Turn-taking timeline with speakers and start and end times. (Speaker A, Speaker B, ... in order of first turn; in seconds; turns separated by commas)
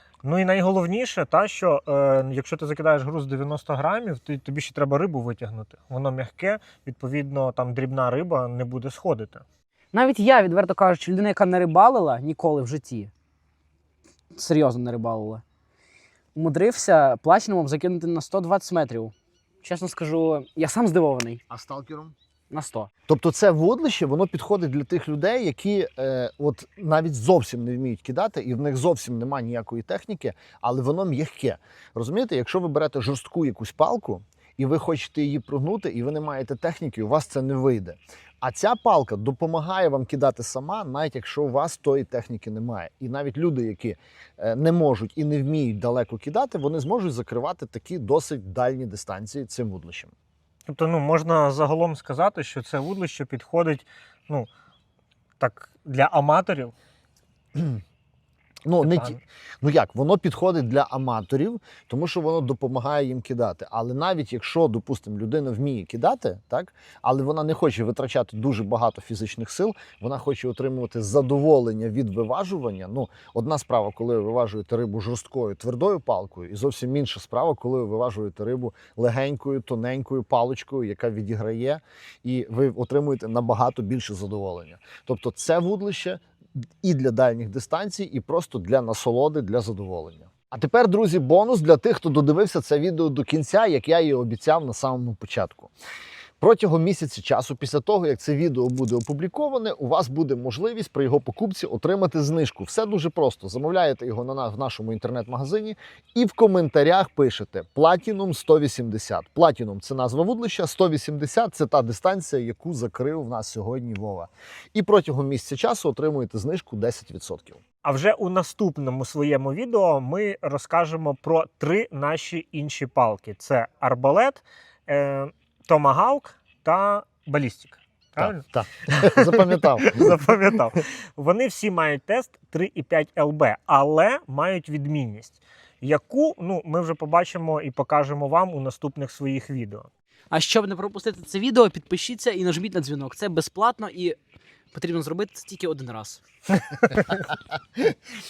Speaker A: 0.2-9.4, Speaker B: 9.9-13.1, Speaker B: 14.3-15.4, Speaker B: 16.3-21.4, Speaker C: 21.5-22.1, Speaker B: 22.5-22.9, Speaker C: 23.1-50.1, Speaker A: 50.7-54.5, Speaker A: 55.4-56.7, Speaker C: 57.5-57.8, Speaker C: 58.6-86.2, Speaker A: 58.8-59.1, Speaker C: 86.8-95.7, Speaker C: 96.4-117.6, Speaker A: 117.8-139.9, Speaker C: 128.2-130.1, Speaker B: 140.3-144.2, Speaker B: 144.7-146.2, Speaker C: 146.9-147.2